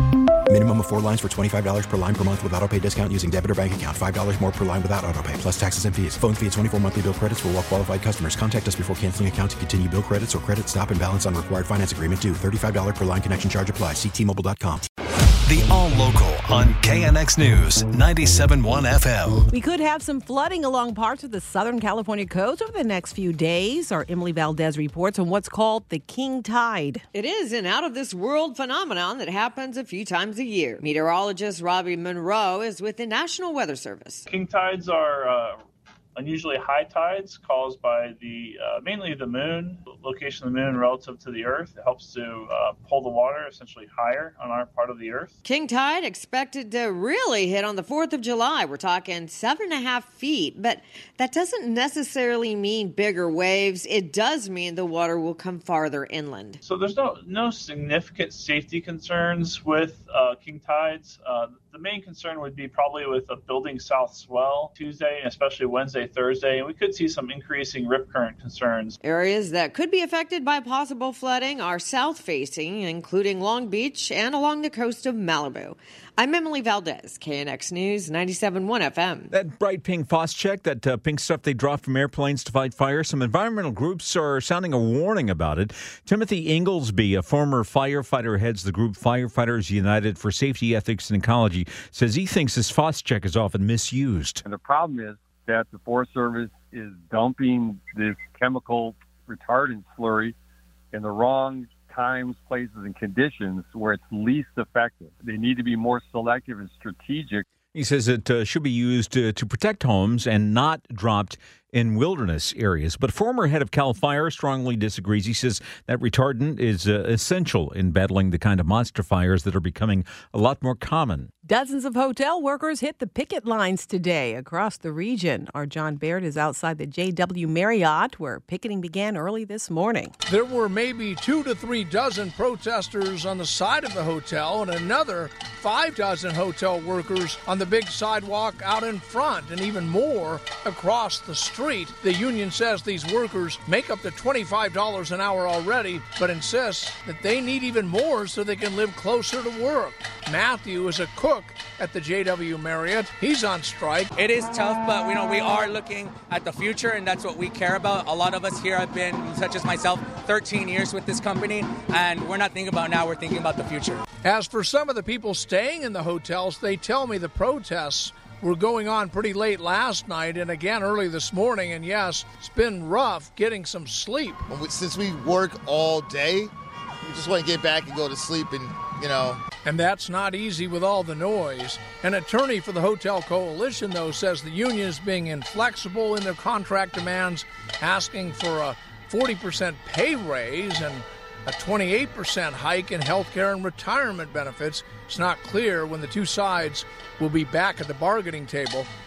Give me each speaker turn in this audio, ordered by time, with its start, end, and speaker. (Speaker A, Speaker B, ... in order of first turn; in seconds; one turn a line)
Speaker A: 0.5-14.8
Speaker B: 15.4-19.5
Speaker C: 19.5-27.0
Speaker D: 27.2-34.1
Speaker E: 27.4-28.1
Speaker F: 34.3-35.6
Speaker F: 36.1-45.3
Speaker E: 45.5-49.4
Speaker D: 45.7-56.4
Speaker E: 51.5-54.5
Speaker E: 55.0-55.3
Speaker E: 55.9-56.5
Speaker F: 56.7-68.9
Speaker E: 69.0-70.3
Speaker D: 69.1-78.8
Speaker E: 71.8-72.6
Speaker E: 74.3-75.7
Speaker E: 76.6-79.3
Speaker G: 79.3-94.4
Speaker H: 94.4-100.3
Speaker H: 100.9-107.4
Speaker G: 107.7-121.3
Speaker C: 121.4-130.1
Speaker I: 130.2-154.1
Speaker J: 154.2-164.0
Speaker I: 164.2-174.4
Speaker E: 174.5-176.5
Speaker E: 177.1-179.4
Speaker I: 179.6-198.9